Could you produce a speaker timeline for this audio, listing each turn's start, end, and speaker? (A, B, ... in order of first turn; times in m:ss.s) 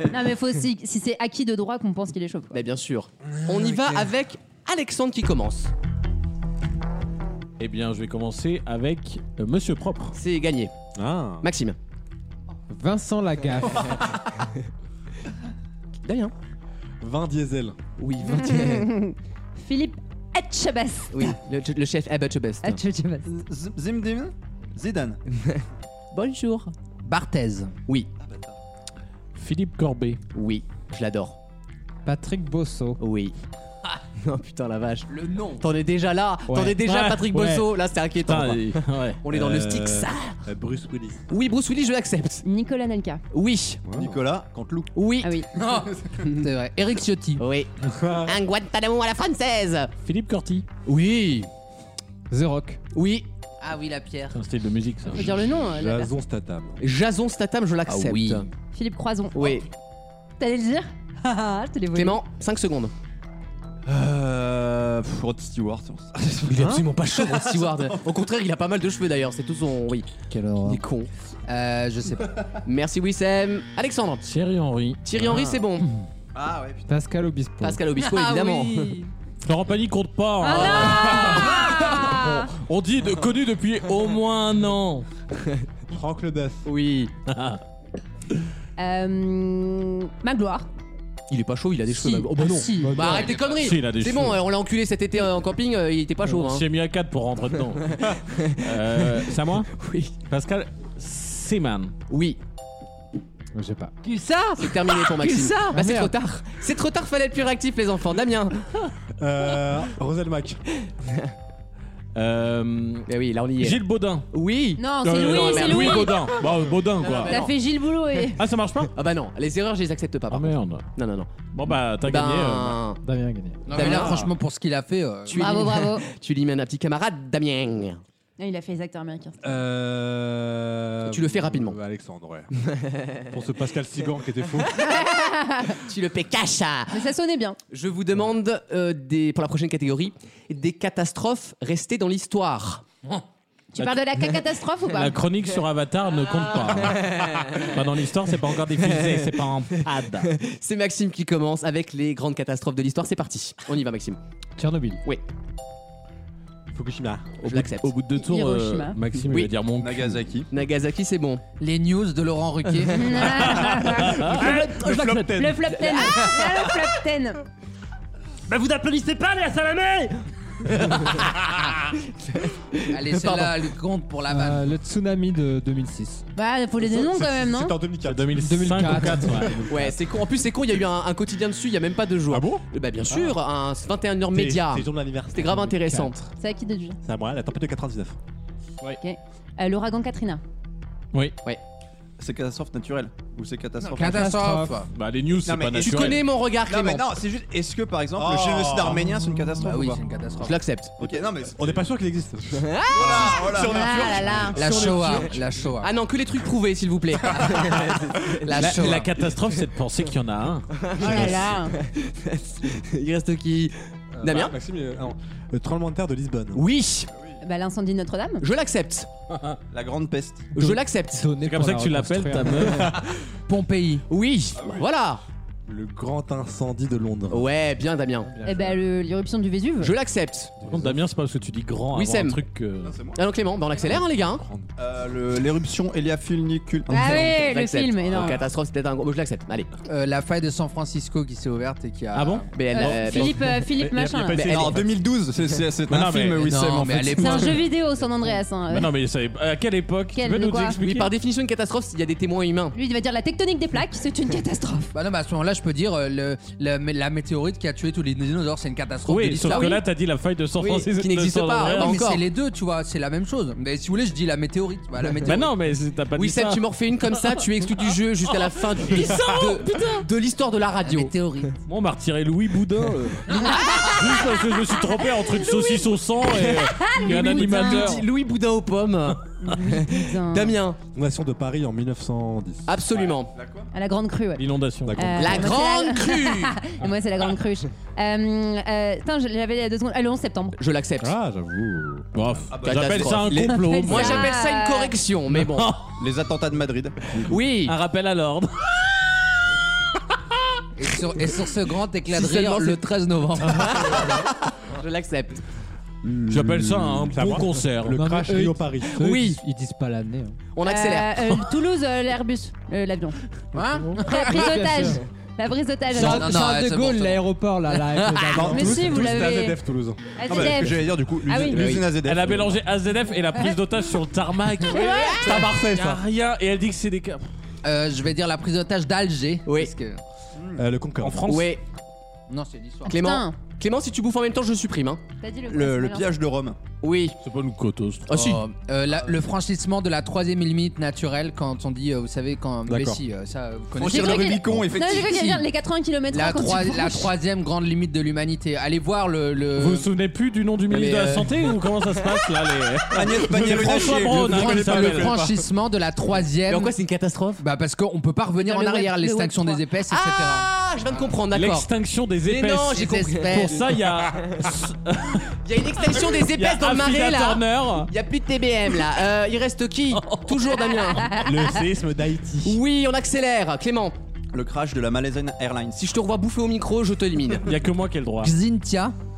0:00.1-0:02.6 A
0:02.5-0:05.7 B
0:03.4-0:04.1 C
0:07.6-0:10.2 D
0:10.2-0:10.7 B
0:11.0-0:11.5 C
0:11.4-0:11.8 B
0:12.7-0:14.0 E
0:16.0-0:16.3 B
0:17.0-0:17.8 C
0:18.0-0:18.9 B
0:18.3-0:21.4 A
0:21.1-0:22.8 B
0:22.6-0:23.3 A
0:23.2-0:25.2 F
0:25.4-0:26.7 B
0:27.0-0:27.7 G
0:28.2-0:28.5 F
0:29.4-0:30.2 D
0:30.3-0:31.4 B
0:32.0-0:33.0 E
0:33.0-0:33.3 B
0:34.2-0:40.4 B
0:35.1-0:35.6 G
0:36.6-0:37.7 D
0:38.2-0:39.2 D
0:39.3-0:41.2 C
0:41.3-0:42.4 B
0:42.4-0:43.2 A
0:43.3-0:43.8 B
0:43.9-0:44.2 C
0:44.0-0:44.9 F
0:45.0-0:45.4 B
0:45.2-0:45.5 A
0:45.6-0:47.4 G
0:47.4-0:47.7 B
0:47.8-0:48.4 C
0:48.2-0:49.9 B
0:50.0-0:50.7 D
0:50.9-0:51.5 B
0:52.3-0:52.8 E
0:52.9-0:53.3 B
0:53.6-0:54.4 G
0:54.3-0:55.4 D
0:55.1-0:56.1 A
0:55.6-0:56.8 C
0:56.8-0:58.5 B
0:57.9-0:58.5 G
0:58.7-0:59.6 A
0:59.4-0:59.7 B
1:00.4-1:02.2 A
1:01.9-1:02.9 B
1:03.9-1:06.4 F
1:06.5-1:10.1 B
1:06.5-1:06.9 C
1:07.2-1:07.9 F
1:10.3-1:10.8 E
1:10.6-1:11.1 B
1:11.5-1:12.3 G
1:12.6-1:14.3 B
1:14.2-1:15.6 D
1:15.0-1:15.9 B
1:16.3-1:16.9 F
1:16.9-1:17.8 E
1:17.6-1:19.0 B
1:18.1-1:18.9 G
1:19.4-1:25.1 D
1:20.4-1:22.5 A
1:20.5-1:21.4 B
1:25.9-1:26.7 C
1:26.6-1:27.1 B
1:27.3-1:27.6 D
1:28.8-1:30.7 A
1:31.3-1:36.7 B
1:31.9-1:33.2 A
1:32.8-1:33.3 C
1:33.2-1:34.4 D
1:36.3-1:38.0 D
1:38.0-1:40.1 B
1:38.6-1:39.7 D
1:40.3-1:41.9 D
1:42.1-1:42.4 B
1:43.6-1:44.0 E
1:44.0-1:45.8 G
1:44.6-1:48.7 B
1:45.7-1:46.1 E
1:49.2-1:50.6 C
1:51.0-1:51.3 B
1:52.2-1:53.1 D
1:53.1-1:56.4 B
1:53.6-1:54.3 D
1:54.8-1:56.3 A
1:55.0-1:57.4 D
1:57.0-1:57.5 B
1:57.3-1:58.4 A
1:58.4-1:58.9 D
1:59.0-2:01.3 B
2:00.3-2:00.9 D
2:01.5-2:02.8 D
2:02.0-2:03.0 B
2:03.0-2:03.8 E
2:03.7-2:05.8 G
2:03.7-2:04.3 B
2:05.3-2:08.0 B
2:05.4-2:06.0 A
2:08.4-2:09.4 A
2:09.4-2:12.5 C
2:11.1-2:11.8 B
2:13.3-2:14.8 C
2:14.9-2:15.8 A
2:15.7-2:17.1 B
2:16.9-2:17.6 A
2:17.7-2:22.8 B
2:23.8-2:25.2 A
2:24.9-2:30.3 D
2:26.3-2:27.7 B
2:28.8-2:34.2 B
2:34.6-2:35.0 E
2:36.7-2:37.4 C
2:37.4-2:40.2 D
2:37.4-2:38.0 B
2:38.1-2:39.0 A
2:39.2-2:39.5 B
2:39.8-2:40.5 F
2:40.5-2:41.4 B
2:41.6-2:43.1 G
2:42.9-2:44.7 A
2:43.7-2:45.4 D
2:44.0-2:46.0 C
2:45.3-2:47.4 A
2:45.8-2:46.2 B
2:48.5-2:50.1 D
2:51.0-2:51.2 B
2:52.3-2:53.6 B
2:52.9-2:54.7 G
2:54.3-2:56.3 E
2:56.4-2:57.8 A
2:56.8-2:58.5 C
2:58.0-3:00.0 D
2:58.4-2:59.5 E
2:59.7-3:06.3 B
3:02.3-3:02.6 C
3:04.3-3:05.7 C
3:05.6-3:06.1 E
3:06.4-3:07.0 A
3:07.0-3:08.2 C
3:09.0-3:10.4 A
3:12.2-3:14.3 F
3:14.0-3:14.9 G
3:14.0-3:14.8 E
3:14.9-3:16.2 D
3:15.4-3:20.0 F
3:15.8-3:17.1 B
3:18.2-3:19.4 C
3:19.6-3:20.6 G
3:20.4-3:20.9 B
3:21.0-3:21.8 F
3:21.0-3:25.6 C
3:22.6-3:23.6 B
3:22.9-3:24.5 F
3:23.5-3:24.8 A
3:24.5-3:25.9 G
3:25.8-3:29.1 B
3:28.5-3:29.1 G
3:28.6-3:31.4 D
3:30.8-3:34.6 B
3:31.0-3:31.8 A
3:34.2-3:36.6 C
3:36.6-3:37.1 B
3:37.4-3:38.4 A
3:38.4-3:39.1 B
3:39.7-3:40.5 F
3:40.5-3:41.3 B
3:40.6-3:42.9 E
3:41.4-3:43.0 D
3:43.5-3:44.0 G
3:44.1-3:45.2 B
3:44.6-3:44.8 F
3:45.7-3:47.5 C
3:47.3-3:48.3 B
3:48.3-3:48.8 C
3:48.4-3:49.9 A
3:49.8-3:50.6 B
3:50.6-3:51.0 C
3:50.6-3:52.9 D
3:51.9-3:52.4 B
3:52.8-3:53.2 F
3:53.2-3:54.4 B
3:54.0-3:54.7 C
3:54.8-3:57.3 F
3:56.9-3:58.4 A
3:57.0-3:59.7 B
3:59.9-4:02.5 G
4:02.1-4:04.8 D
4:02.5-4:03.4 B
4:02.8-4:04.7 A
4:04.0-4:04.7 C
4:04.5-4:07.7 F
4:05.9-4:06.5 D
4:06.4-4:07.6 G
4:07.2-4:08.9 A
4:08.7-4:11.1 D
4:10.2-4:10.8 A
4:10.8-4:12.8 B
4:12.7-4:14.9 A
4:14.9-4:19.7 G
4:19.1-4:22.0 D
4:19.5-4:19.8 B
4:20.6-4:22.2 B
4:21.7-4:25.5 G
4:25.2-4:26.6 D
4:26.2-4:31.1 B
4:28.4-4:30.0 D
4:30.8-4:31.6 G
4:31.7-4:38.1 D
4:33.5-4:33.9 A
4:35.4-4:35.7 A
4:36.2-4:40.8 B
4:36.8-4:38.0 A
4:39.4-4:40.6 A
4:40.9-4:42.8 C
4:42.7-4:43.3 B
4:43.3-4:43.7 F
4:43.7-4:50.6 A
4:44.4-4:45.2 D
4:44.9-4:45.6 C
4:45.2-4:46.6 B
4:50.6-4:51.1 B
4:51.0-4:52.4 C
4:52.1-4:54.3 D
4:52.5-4:53.6 F
4:52.6-4:55.8 B
4:53.5-4:54.9 A
4:55.3-4:55.9 D
4:56.0-4:57.3 F
4:57.3-4:57.8 B
4:57.6-4:58.8 D
5:00.8-5:04.0 G
5:02.1-5:02.8 B
5:03.4-5:05.4 B
5:06.3-5:09.0 C
5:06.3-5:08.1 D
5:08.0-5:10.4 E
5:09.0-5:09.4 B
5:10.5-5:11.3 B
5:10.6-5:13.2 A
5:13.6-5:14.3 G
5:13.6-5:15.0 E
5:14.0-5:16.4 A
5:15.9-5:19.0 E
5:15.9-5:17.2 G
5:18.3-5:20.5 C
5:18.4-5:18.9 F
5:18.5-5:19.6 A
5:20.2-5:21.7 A
5:20.2-5:22.6 F
5:21.5-5:21.9 B
5:22.0-5:27.3 D
5:24.7-5:25.3 A
5:25.3-5:26.0 C
5:27.6-5:30.0 G
5:29.5-5:29.7 B
5:30.4-5:30.6 F
5:30.6-5:31.3 C
5:31.0-5:31.6 D
5:31.3-5:31.6 B
5:32.3-5:32.9 G
5:32.9-5:33.4 A
5:32.9-5:35.0 B
5:35.2-5:36.1 A
5:35.5-5:36.6 F
5:36.8-5:37.2 B
5:37.2-5:38.1 D
5:38.1-5:45.4 G
5:38.1-5:38.4 B
5:42.7-5:43.0 C
5:43.7-5:45.4 F
5:43.8-5:47.1 A
5:46.1-5:49.9 G
5:49.6-5:55.2 D
5:50.7-5:51.5 B
5:52.9-5:55.1 F
5:54.1-5:56.7 G
5:56.5-5:57.4 B
5:57.4-6:00.5 G
5:58.4-5:59.6 A
5:59.9-6:01.7 B
6:01.3-6:05.3 D
6:02.2-6:03.6 B
6:02.7-6:03.6 G
6:05.4-6:11.2 B
6:06.2-6:07.9 D
6:09.9-6:11.0 D
6:11.1-6:12.6 C
6:12.4-6:14.0 B
6:14.3-6:15.8 F
6:15.8-6:17.5 B
6:17.4-6:18.4 D
6:18.2-6:19.0 G